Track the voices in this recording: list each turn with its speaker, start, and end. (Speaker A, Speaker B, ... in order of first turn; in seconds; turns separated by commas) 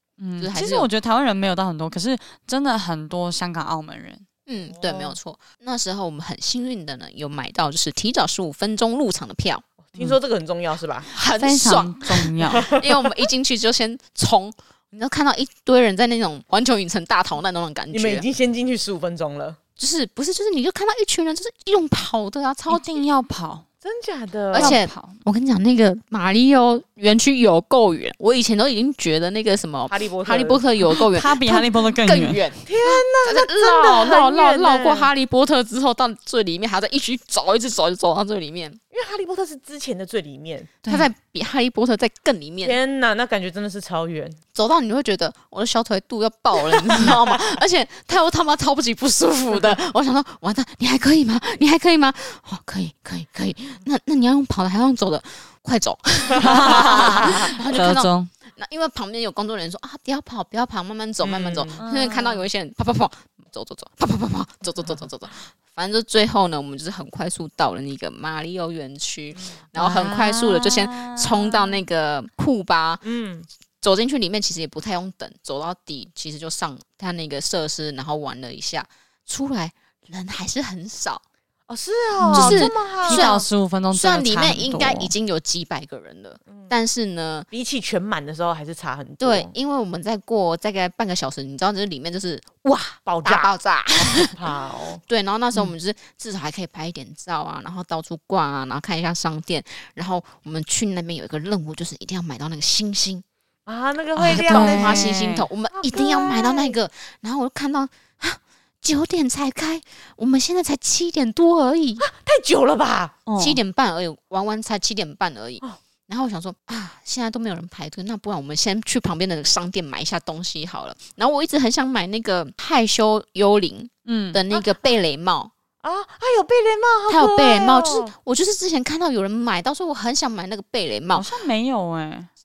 Speaker A: 0.2-4.2, Speaker B: 0.4-0.9, Speaker B: 4.5-9.6, Speaker C: 4.7-5.2, Speaker C: 9.8-11.1, Speaker B: 11.1-18.3, Speaker A: 11.4-12.7, Speaker C: 12.6-12.8, Speaker C: 17.9-19.6, Speaker B: 19.8-23.0, Speaker A: 22.7-23.7, Speaker C: 23.8-24.8, Speaker A: 24.5-25.2, Speaker B: 24.5-38.8, Speaker C: 29.9-30.6, Speaker A: 30.9-32.4, Speaker C: 32.7-35.1, Speaker C: 38.9-40.7, Speaker B: 40.8-42.8, Speaker C: 42.6-44.4, Speaker B: 44.5-73.0, Speaker C: 46.9-47.4, Speaker A: 56.4-58.3, Speaker C: 56.4-57.3, Speaker C: 61.2-61.8, Speaker A: 61.8-62.5, Speaker A: 69.8-71.8, Speaker C: 73.0-73.5, Speaker B: 73.8-81.2, Speaker C: 81.7-83.3, Speaker A: 82.2-85.1, Speaker B: 82.3-87.5, Speaker C: 87.5-89.5, Speaker B: 89.2-94.4, Speaker C: 93.1-95.0, Speaker B: 95.1-103.2, Speaker C: 103.7-105.2, Speaker A: 104.2-105.5, Speaker B: 104.2-112.1, Speaker C: 105.7-106.8, Speaker C: 112.0-113.2, Speaker A: 113.3-113.6, Speaker B: 113.4-125.5, Speaker A: 124.1-124.4, Speaker C: 125.8-128.1, Speaker B: 127.1-131.3, Speaker A: 131.1-132.3